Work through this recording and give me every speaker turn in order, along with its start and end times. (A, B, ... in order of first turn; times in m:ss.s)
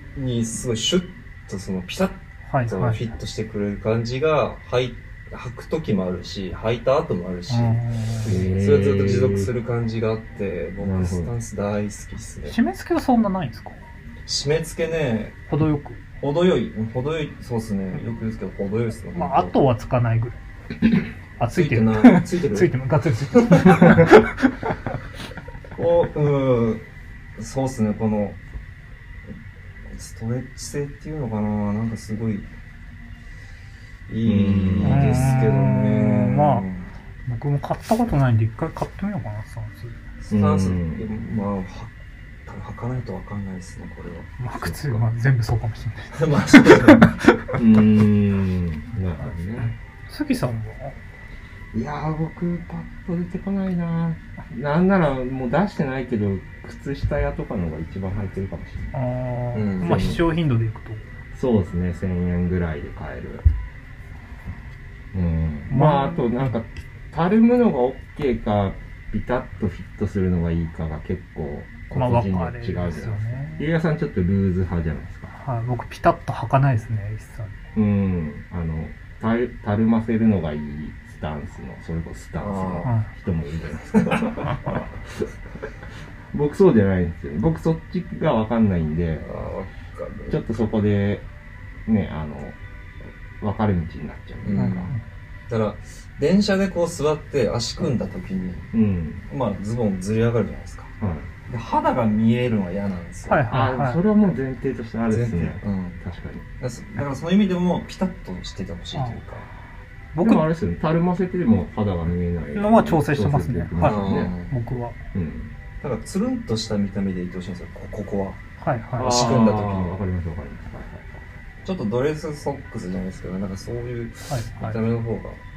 0:00.2-0:12.6 A
0:02.5-0:03.0 B
0:07.5-0:08.5 B
0:08.2-0:09.5 C
0:10.8-0:11.3 C
0:12.4-0:13.8 B
0:14.3-0:15.4 A
0:15.5-0:16.0 B
0:16.2-0:19.6 A
0:19.1-0:20.4 B
0:21.4-0:24.8 B
0:21.5-0:22.8 A
0:23.4-0:23.9 A
0:25.8-0:26.8 A
0:27.4-0:28.4 A
0:29.9-0:32.5 A
0:34.1-0:36.9 A
0:34.2-0:35.3 C
0:34.8-0:36.7 B
0:37.3-0:40.0 B
0:40.2-0:41.9 A
0:40.3-0:41.0 C
0:42.5-0:44.3 A
0:44.4-0:47.6 B
0:44.5-0:45.0 C
0:46.1-0:47.1 A
0:47.6-0:49.7 C
0:50.1-0:51.0 B
0:51.7-0:59.0 C
0:58.9-1:01.0 B
0:59.5-1:00.2 A
0:59.8-1:00.2 C
1:01.3-1:03.5 C
1:05.1-1:15.4 C
1:05.7-1:06.5 B
1:11.9-1:13.7 B
1:15.4-1:17.6 B
1:17.8-1:25.3 C
1:22.4-1:22.9 A
1:24.0-1:24.4 A
1:26.3-1:29.3 C
1:29.2-1:30.4 A
1:30.3-1:31.3 C
1:31.9-1:32.6 C
1:33.4-1:35.0 C
1:34.4-1:34.9 A
1:34.6-1:35.0 B
1:35.5-1:38.7 A
1:38.7-1:39.2 C
1:39.3-1:40.9 A
1:41.0-1:41.3 C
1:41.5-1:43.5 A
1:43.2-1:44.0 B
1:43.5-1:46.5 C
1:45.1-1:46.0 A
1:46.6-1:49.5 A
1:50.2-1:50.5 B
1:50.2-1:54.4 C
1:52.6-1:55.0 B
1:53.8-1:54.6 A
1:55.1-1:55.5 C
1:55.8-1:58.4 A
1:58.6-1:59.3 B
1:59.0-2:00.0 A
1:59.0-2:01.2 C
2:01.6-2:05.4 A
2:04.3-2:04.8 B